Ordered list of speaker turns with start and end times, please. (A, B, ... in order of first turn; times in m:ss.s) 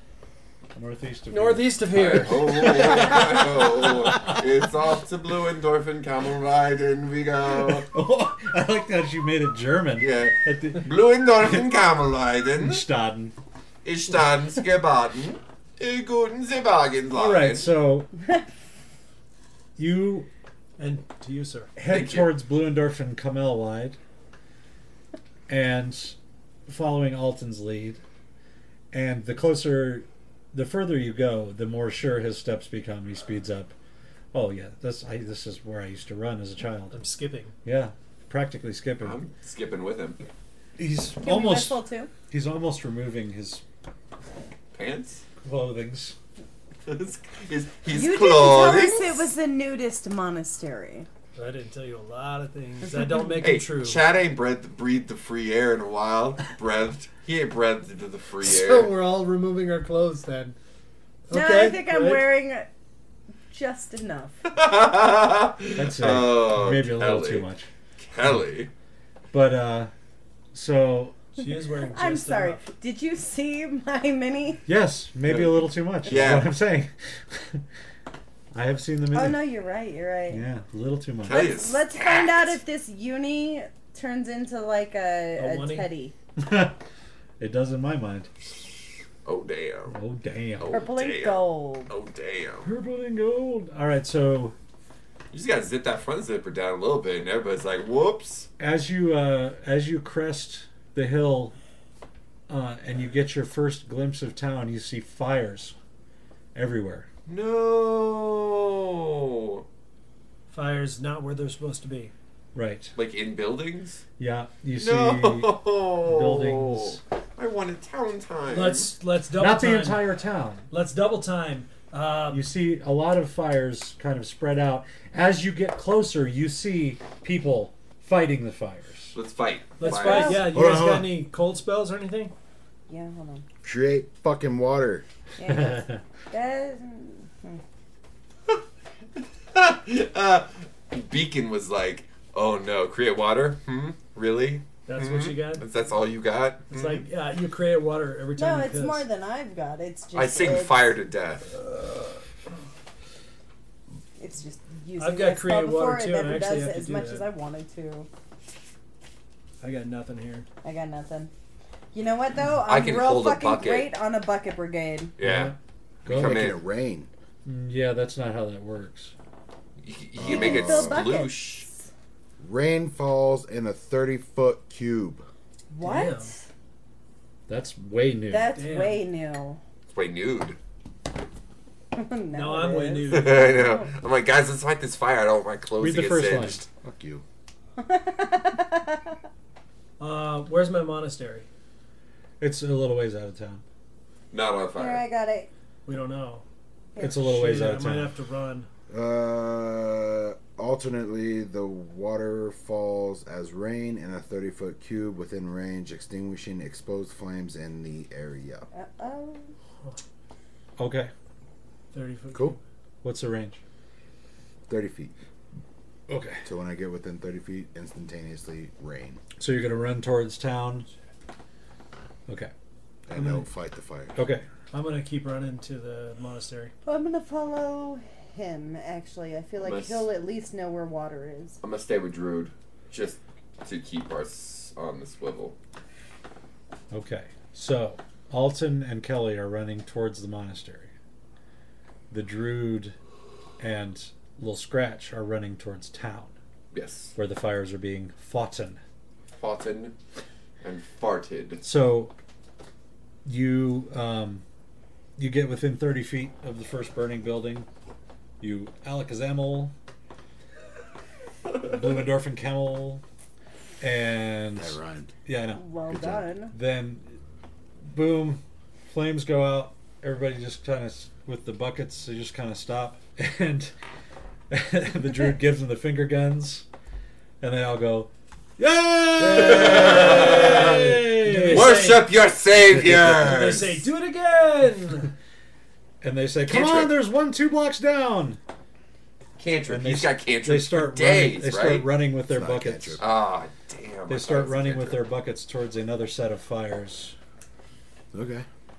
0:00.7-0:01.8 A
0:01.3-0:03.2 B
0:01.9-0:07.9 C
0:02.4-0:04.4 A
0:07.8-0:11.7 A
0:10.0-0:12.8 C
0:12.6-0:13.3 A
0:13.8-0:17.7 C
0:17.1-0:18.1 A
0:19.8-0:20.3 A
0:20.8-0:21.7 B
0:21.8-0:24.0 A
0:21.8-0:22.3 C
0:25.5-0:28.0 A
0:28.9-0:33.7 A
0:34.3-0:37.0 A
0:36.9-0:37.5 B
0:37.6-0:39.2 A
0:39.0-0:40.2 C
0:40.8-0:43.6 A
0:41.2-0:42.1 D
0:44.7-0:45.2 C
0:45.4-0:46.2 A
0:46.9-0:49.3 C
0:47.9-0:51.1 D
0:51.4-0:54.0 B
0:53.4-0:58.9 C
0:58.4-1:00.6 B
1:01.3-1:02.3 B
1:01.3-1:02.7 D
1:03.5-1:04.4 D
1:04.4-1:08.7 C
1:05.8-1:07.7 A
1:09.3-1:09.9 A
1:10.5-1:11.2 A
1:11.4-1:12.6 B
1:11.8-1:14.6 D
1:14.6-1:17.6 A
1:15.2-1:16.5 C
1:18.5-1:19.4 A
1:19.1-1:20.4 D
1:20.3-1:21.5 A
1:21.2-1:22.6 C
1:21.2-1:26.1 D
1:25.4-1:25.9 B
1:26.4-1:26.8 A
1:27.4-1:28.3 A
1:29.2-1:30.0 C
1:29.9-1:30.7 A
1:30.6-1:32.7 C
1:30.7-1:31.9 D
1:32.6-1:34.6 A
1:35.3-1:38.5 C
1:38.6-1:41.6 A
1:42.5-1:45.8 A
1:46.5-1:47.1 A
1:47.2-1:49.6 C
1:50.5-1:52.1 B
1:52.5-1:52.9 A
1:53.0-1:54.0 C
1:54.2-1:57.0 A
1:54.7-1:58.9 C
1:58.5-2:00.1 B
1:59.4-2:00.6 A
2:00.7-2:02.4 B
2:02.3-2:09.2 A
2:09.1-2:10.4 C
2:09.8-2:12.3 B
2:09.8-2:10.5 D
2:10.4-2:11.2 E
2:12.9-2:13.4 D
2:13.6-2:15.0 E
2:15.4-2:17.6 D
2:15.5-2:16.0 A
2:19.5-2:27.0 C
2:24.8-2:25.6 B
2:26.7-2:29.0 B
2:28.4-2:30.8 D
2:30.1-2:31.5 C
2:34.2-2:38.1 D
2:35.0-2:37.3 B
2:39.6-2:40.5 B
2:40.6-2:41.3 D
2:41.9-2:45.1 D
2:42.6-2:43.9 C
2:45.2-2:46.6 C
2:45.2-2:46.5 A
2:46.1-2:47.1 E
2:47.4-2:49.1 A
2:49.8-2:51.7 C
2:50.2-2:51.0 E
2:50.2-2:51.7 D
2:52.4-2:55.2 E
2:55.7-2:56.5 D
2:55.8-2:56.3 B
2:57.5-2:58.6 A
2:58.3-2:59.6 D
2:58.5-2:59.1 B
2:59.9-3:00.6 C
3:01.9-3:03.9 D
3:02.3-3:03.7 B
3:03.1-3:06.7 C
3:05.8-3:06.6 A
3:06.8-3:07.2 E
3:07.8-3:09.1 D
3:10.0-3:11.5 B
3:12.4-3:13.6 A
3:14.3-3:15.1 C
3:14.7-3:15.5 D
3:15.8-3:16.4 B
3:16.9-3:17.2 D
3:17.0-3:18.1 A
3:17.0-3:18.7 B
3:18.9-3:28.7 E
3:28.7-3:29.5 D
3:30.8-3:31.1 A
3:31.9-3:32.6 B
3:33.0-3:33.6 A
3:34.7-3:35.1 E
3:36.1-3:36.4 A
3:36.4-3:39.2 E
3:39.4-3:40.9 A
3:42.3-3:42.5 A
3:43.1-3:44.2 E
3:43.1-3:43.5 B
3:44.1-3:44.4 A
3:44.7-3:46.7 B
3:46.8-3:51.6 D
3:49.6-3:50.1 C
3:51.6-3:55.6 C
3:56.9-4:00.9 A
4:02.1-4:03.0 A
4:03.6-4:06.3 A
4:06.7-4:07.1 C
4:07.1-4:08.8 A
4:09.4-4:09.9 C
4:10.6-4:11.6 C
4:11.6-4:12.1 A
4:13.2-4:14.4 A
4:15.2-4:17.7 A
4:18.4-4:19.7 A
4:21.6-4:23.0 A
4:23.8-4:25.6 A
4:24.5-4:25.1 E
4:25.6-4:26.5 D
4:25.9-4:26.3 E
4:26.5-4:27.2 A
4:27.8-4:33.7 A
4:34.5-4:36.7 A
4:37.4-4:41.7 A
4:39.2-4:43.8 C
4:39.6-4:40.0 E
4:40.8-4:42.1 B
4:42.9-4:45.1 B
4:46.0-4:48.4 A
4:46.5-4:46.9 C
4:49.4-4:51.9 C
4:49.7-4:53.0 A
4:52.2-4:53.0 E
4:53.0-4:55.0 C
4:54.1-4:57.2 A
4:58.1-4:58.5 E